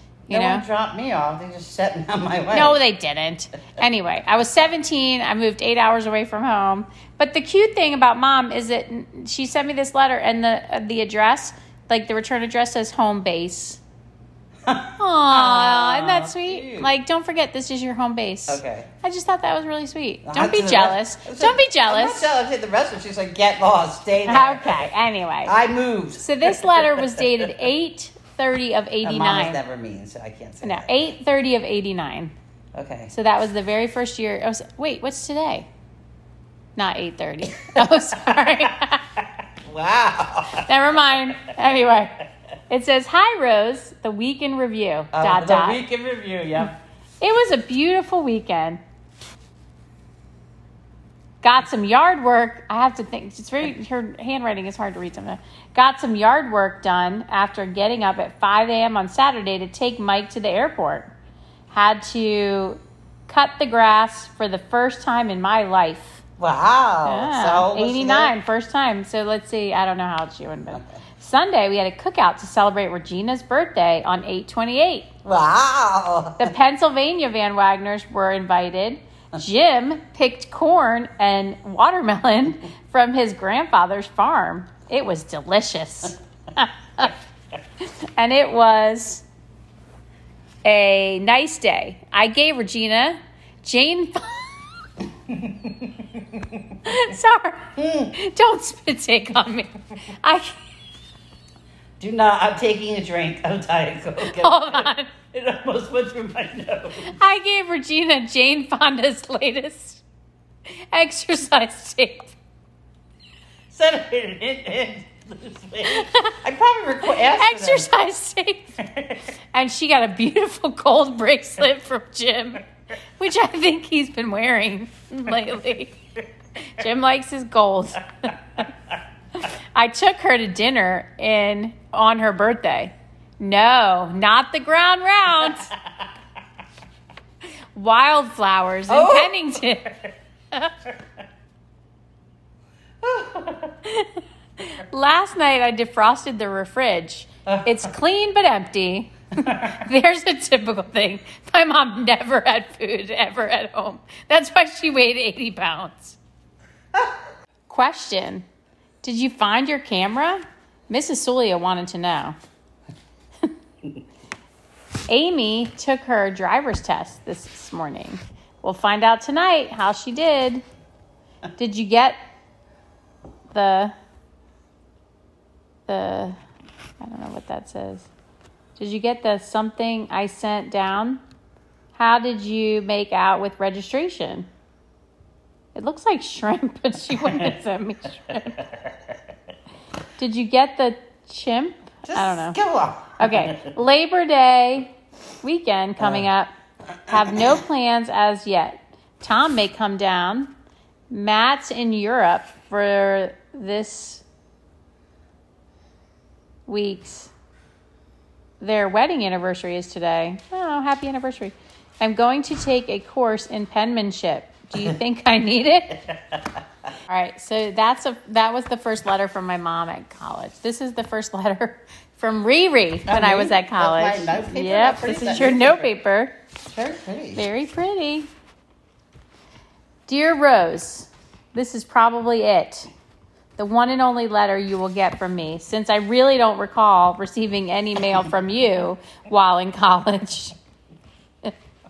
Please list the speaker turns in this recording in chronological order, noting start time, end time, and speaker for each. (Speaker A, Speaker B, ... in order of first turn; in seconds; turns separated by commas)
Speaker A: 0.3-2.8, Speaker B: 0.3-0.6, Speaker B: 2.5-13.8, Speaker A: 14.7-16.9, Speaker B: 15.0-22.3, Speaker A: 18.5-18.9, Speaker A: 20.2-24.9, Speaker B: 24.3-25.5, Speaker A: 25.4-27.5, Speaker B: 26.2-29.6, Speaker A: 29.0-30.9, Speaker B: 30.6-32.3, Speaker A: 32.7-33.1, Speaker B: 33.1-35.6, Speaker B: 36.8-39.0, Speaker A: 37.7-38.7, Speaker A: 39.6-41.4, Speaker B: 40.6-42.1, Speaker B: 42.7-45.8, Speaker A: 45.1-46.8, Speaker B: 47.2-48.8, Speaker B: 51.4-61.1, Speaker B: 61.7-66.2, Speaker A: 66.4-68.3, Speaker B: 67.0-75.1, Speaker A: 75.2-76.5, Speaker B: 76.4-87.1, Speaker B: 88.2-89.2, Speaker B: 90.6-94.4, Speaker A: 95.3-96.6, Speaker B: 96.8-100.6, Speaker A: 97.8-98.1, Speaker A: 102.0-107.1, Speaker B: 104.3-105.1, Speaker B: 107.0-110.0, Speaker B: 110.9-112.3, Speaker A: 113.7-117.9, Speaker B: 115.8-116.3, Speaker B: 117.1-118.8, Speaker A: 118.8-119.2, Speaker B: 119.5-122.7, Speaker B: 123.2-126.0, Speaker B: 126.6-128.7, Speaker B: 129.7-135.7, Speaker B: 137.7-140.0, Speaker A: 138.9-139.8, Speaker A: 143.0-143.8, Speaker B: 143.8-156.2, Speaker A: 147.5-147.8, Speaker B: 157.7-158.4, Speaker B: 159.0-162.4, Speaker B: 165.1-170.6, Speaker B: 171.6-172.2, Speaker B: 173.5-173.9, Speaker B: 175.9-176.3, Speaker B: 177.0-178.1, Speaker B: 178.8-181.2, Speaker B: 181.9-184.5, Speaker B: 185.7-188.6, Speaker A: 188.6-188.9, Speaker B: 190.2-192.6, Speaker A: 192.1-193.7, Speaker B: 193.2-196.5, Speaker A: 196.0-196.3, Speaker B: 197.1-200.5, Speaker B: 201.1-204.2, Speaker B: 206.7-207.3, Speaker B: 208.6-216.0, Speaker B: 217.1-226.3, Speaker A: 223.1-225.9, Speaker A: 226.7-227.4, Speaker B: 227.3-228.3, Speaker B: 230.1-232.9, Speaker B: 233.6-240.6